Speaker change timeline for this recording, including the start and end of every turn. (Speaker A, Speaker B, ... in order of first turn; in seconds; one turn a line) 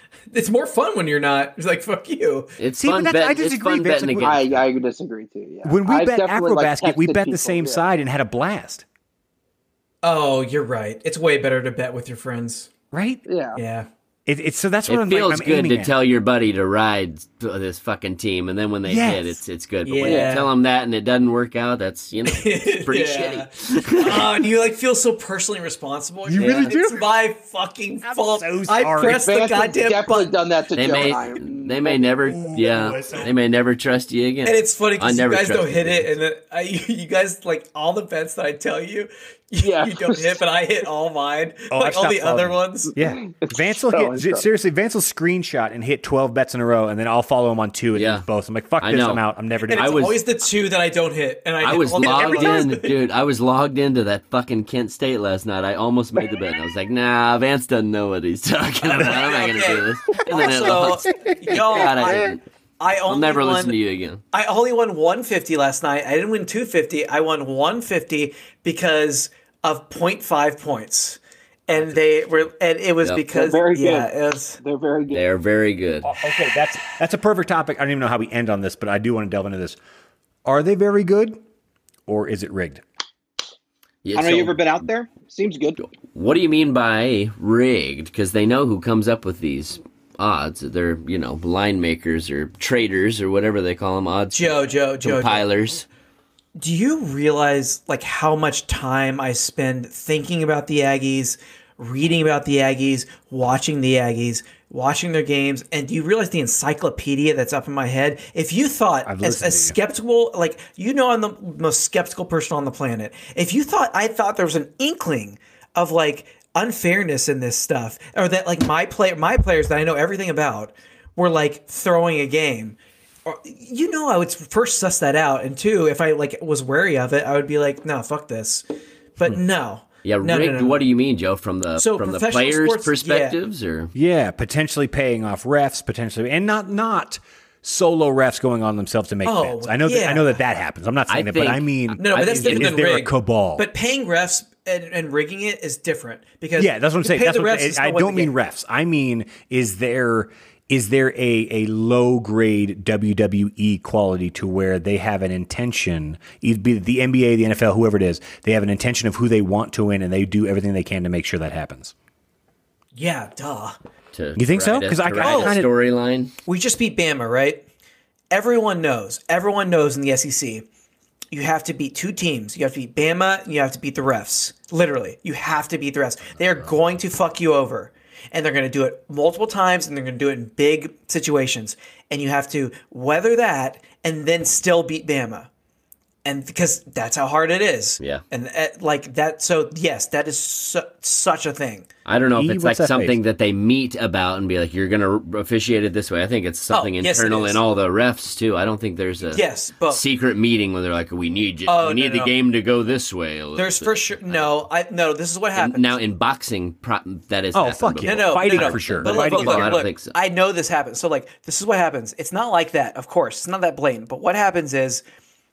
Speaker A: 0.3-2.5
Speaker B: 2.6-4.6
Speaker C: 2.8-4.3
Speaker D: 4.2-7.8
Speaker C: 5.7-8.8
Speaker A: 10.0-12.7
Speaker C: 12.9-13.2
Speaker D: 13.3-13.6
Speaker A: 13.6-13.9
Speaker C: 14.3-15.9
Speaker B: 14.9-24.4
Speaker C: 18.9-19.4
Speaker A: 19.9-20.5
Speaker D: 20.0-20.4
Speaker A: 22.3-30.3
Speaker C: 26.3-27.0
Speaker B: 26.4-26.7
Speaker C: 28.0-29.3
Speaker D: 29.0-32.3
Speaker B: 30.8-36.1
Speaker C: 32.3-33.3
Speaker A: 34.5-43.0
Speaker D: 39.6-40.4
Speaker C: 41.7-50.2
Speaker D: 43.0-44.5
Speaker B: 48.0-48.2
Speaker B: 48.8-49.2
Speaker A: 49.7-53.0
Speaker B: 49.8-50.2
Speaker B: 51.6-62.4
Speaker A: 58.8-63.8
Speaker C: 61.1-61.4
Speaker C: 62.0-62.3
Speaker B: 63.1-64.2
Speaker A: 64.3-74.6
Speaker D: 73.3-74.1
Speaker D: 74.6-75.2
Speaker B: 75.1-76.1
Speaker C: 76.0-79.8
Speaker C: 80.5-81.4
Speaker C: 82.1-82.8
Speaker B: 84.0-84.6
Speaker D: 84.2-85.8
Speaker B: 85.8-95.9
Speaker A: 94.3-95.5
Speaker A: 96.6-128.7
Speaker C: 109.0-109.8
Speaker A: 129.2-130.8
Speaker B: 130.0-133.9
Speaker A: 131.8-133.4
Speaker C: 133.9-143.7
Speaker A: 139.2-140.4
Speaker B: 141.1-142.8
Speaker A: 142.0-148.3
Speaker C: 146.6-161.9
Speaker A: 162.9-163.8
Speaker B: 164.1-166.3
Speaker C: 164.4-165.7
Speaker A: 165.2-165.6
Speaker A: 166.5-167.7
Speaker A: 168.3-170.7
Speaker A: 171.3-185.5
Speaker A: 186.2-191.9
Speaker B: 192.1-204.5
Speaker C: 192.3-193.2
Speaker A: 196.7-197.6
Speaker A: 199.3-200.0
Speaker A: 201.7-202.3
Speaker A: 203.6-206.0
Speaker B: 205.6-210.2
Speaker C: 207.5-209.8
Speaker A: 208.1-215.0